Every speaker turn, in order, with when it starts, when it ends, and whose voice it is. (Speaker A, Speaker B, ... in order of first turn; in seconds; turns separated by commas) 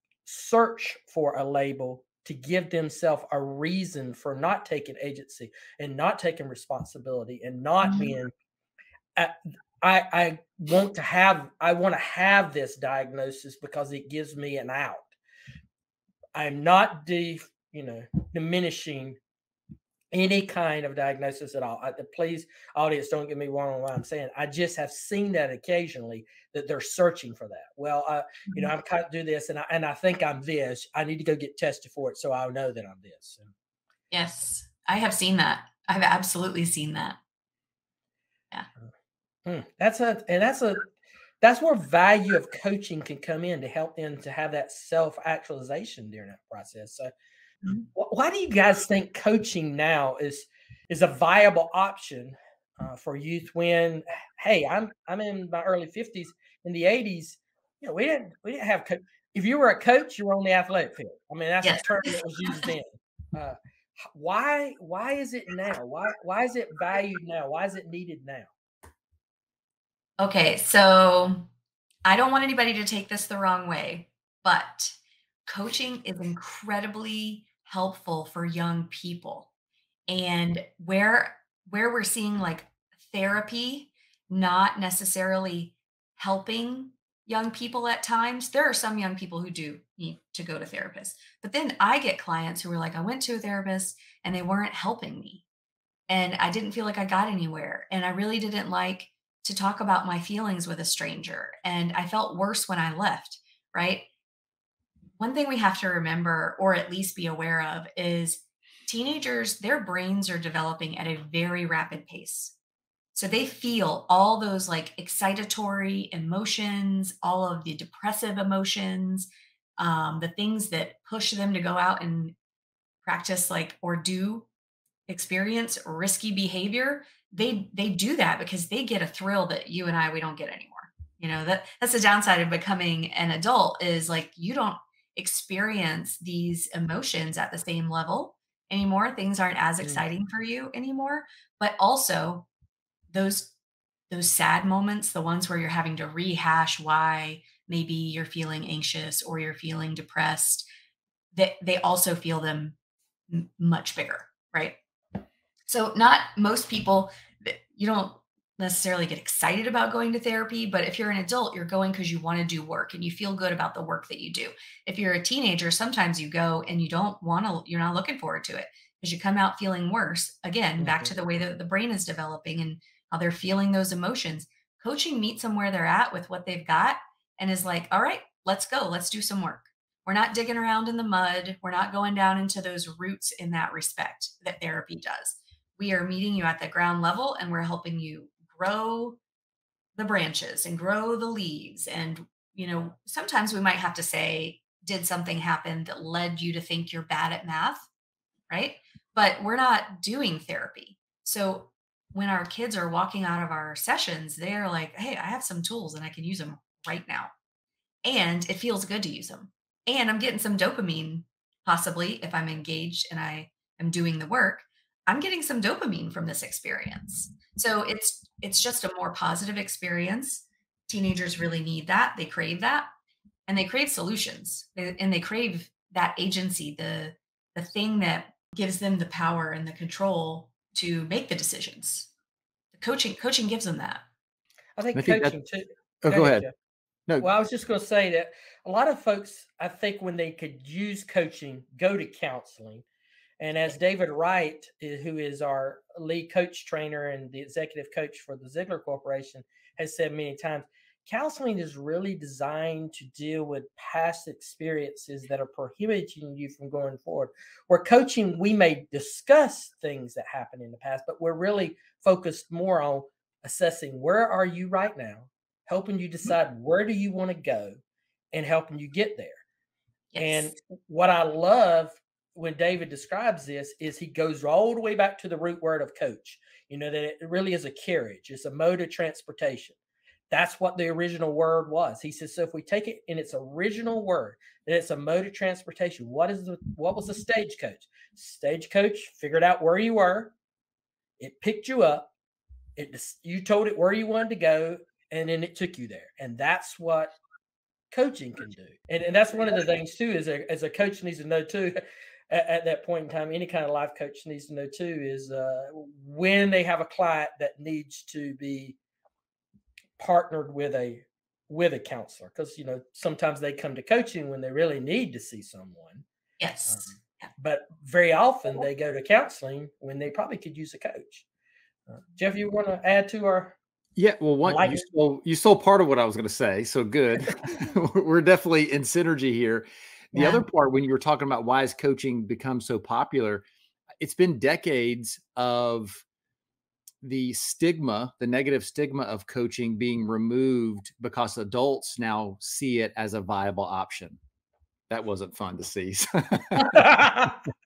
Speaker A: 0.2-8.3, Speaker B: 7.8-8.1, Speaker A: 9.2-15.1, Speaker A: 16.3-19.2, Speaker A: 20.1-33.5, Speaker B: 34.1-37.2, Speaker A: 39.5-40.9, Speaker A: 41.4-47.1, Speaker A: 47.9-68.5, Speaker B: 61.6-62.7, Speaker B: 70.2-71.5, Speaker B: 72.0-79.5, Speaker B: 80.1-95.4, Speaker B: 96.1-104.1, Speaker B: 105.2-112.5, Speaker B: 113.1-122.3, Speaker B: 123.0-124.5, Speaker B: 125.1-142.5, Speaker B: 143.1-143.5, Speaker B: 144.1-150.7, Speaker B: 151.3-152.8, Speaker B: 153.3-154.8, Speaker B: 155.7-189.2, Speaker A: 170.8-171.2, Speaker B: 189.9-197.9, Speaker B: 198.5-207.3, Speaker B: 208.0-222.9, Speaker B: 223.5-232.1, Speaker B: 232.7-234.0, Speaker A: 234.8-236.5, Speaker C: 234.9-235.4, Speaker C: 236.0-236.5, Speaker A: 237.2-242.8, Speaker A: 243.4-267.8, Speaker A: 268.3-269.4, Speaker B: 270.1-270.5, Speaker A: 270.2-279.8, Speaker A: 280.3-290.3, Speaker A: 291.2-292.1, Speaker A: 292.8-297.1, Speaker A: 297.9-308.8, Speaker A: 310.0-316.0, Speaker B: 316.4-316.9, Speaker A: 316.7-321.2, Speaker A: 321.9-323.6, Speaker C: 324.0-333.4, Speaker A: 324.4-324.8, Speaker C: 334.0-336.0, Speaker C: 337.0-344.2, Speaker C: 344.9-347.3, Speaker A: 346.8-347.3